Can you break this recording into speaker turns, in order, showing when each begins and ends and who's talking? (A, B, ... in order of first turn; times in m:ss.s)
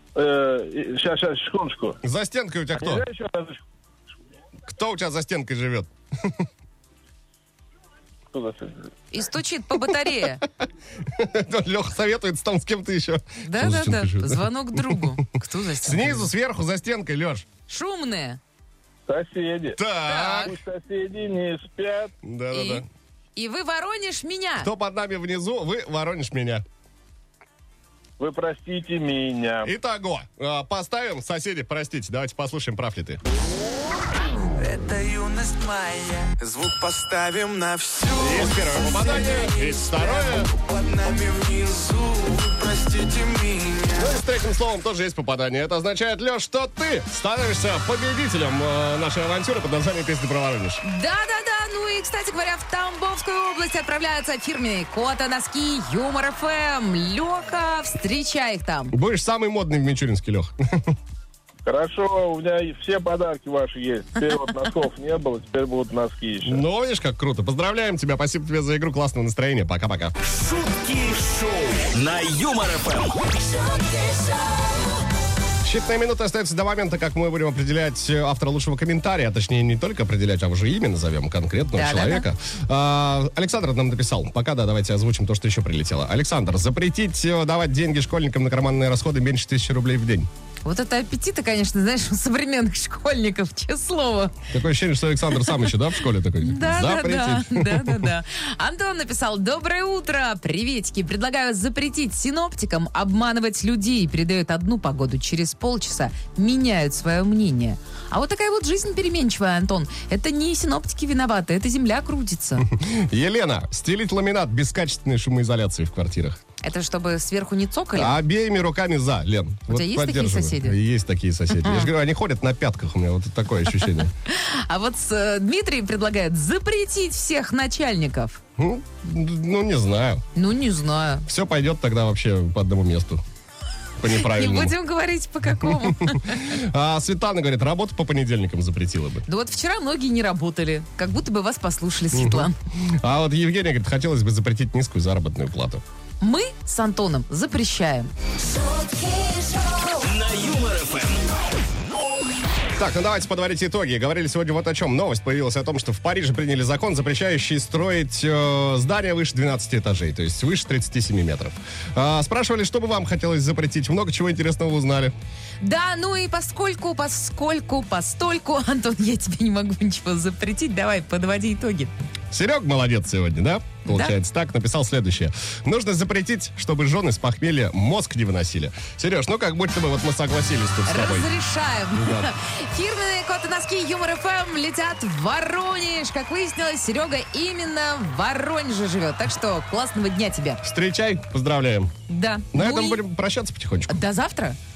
0:00.2-0:02.0 A
0:02.0-0:03.0 B
0:02.7-0:03.6 A
0:04.7-0:06.5 B
0:08.3-0:08.9 A
0:09.1-0:10.4 C
0:11.1-0:15.2 B
0:13.4-0:16.3 C
0:15.8-0:17.4 B
0:17.7-0:18.4 C
0:19.1-0:19.8 A
0:19.8-0:20.6 B
0:20.1-0:20.5 C
0:20.4-0:22.1 A
0:22.2-0:22.9 B
0:22.5-0:22.8 C
0:23.4-0:24.7 C
0:24.6-0:26.6 B
0:28.2-0:29.7 A
0:29.6-0:33.2 B
0:34.6-0:44.1 D
0:38.2-0:40.5 B
0:44.0-0:50.8 B
0:50.8-0:58.9 C
0:58.9-1:01.0 B
1:01.6-1:06.6 A
1:06.4-1:10.1 B
1:10.2-1:14.2 E
1:15.6-1:30.3 B
1:21.7-1:22.3 C
1:30.6-1:34.4 C
1:34.5-1:38.1 B
1:36.4-1:52.7 C
1:52.6-1:56.4 B
1:56.6-1:58.2 C
1:58.0-2:04.1 B
1:59.7-2:00.8 C
2:01.6-2:01.9 C
2:04.3-2:08.4 C
2:08.6-2:10.2 B
2:10.4-2:11.3 C
2:11.3-2:13.2 B
2:14.0-2:14.8 B
2:14.1-2:16.4 C
2:15.6-2:19.3 B
2:19.3-2:22.5 C
2:22.1-2:25.8 B
2:26.2-2:28.1 C
2:29.9-2:31.3 E
2:32.8-2:45.1 B
2:45.6-2:51.9 C
2:52.3-3:01.3 B
2:53.9-2:54.1 C
3:00.9-3:10.6 C
3:02.0-3:02.3 B
3:10.6-3:11.9 B
3:12.1-3:13.0 C
3:12.5-3:14.0 B
3:13.9-3:14.6 C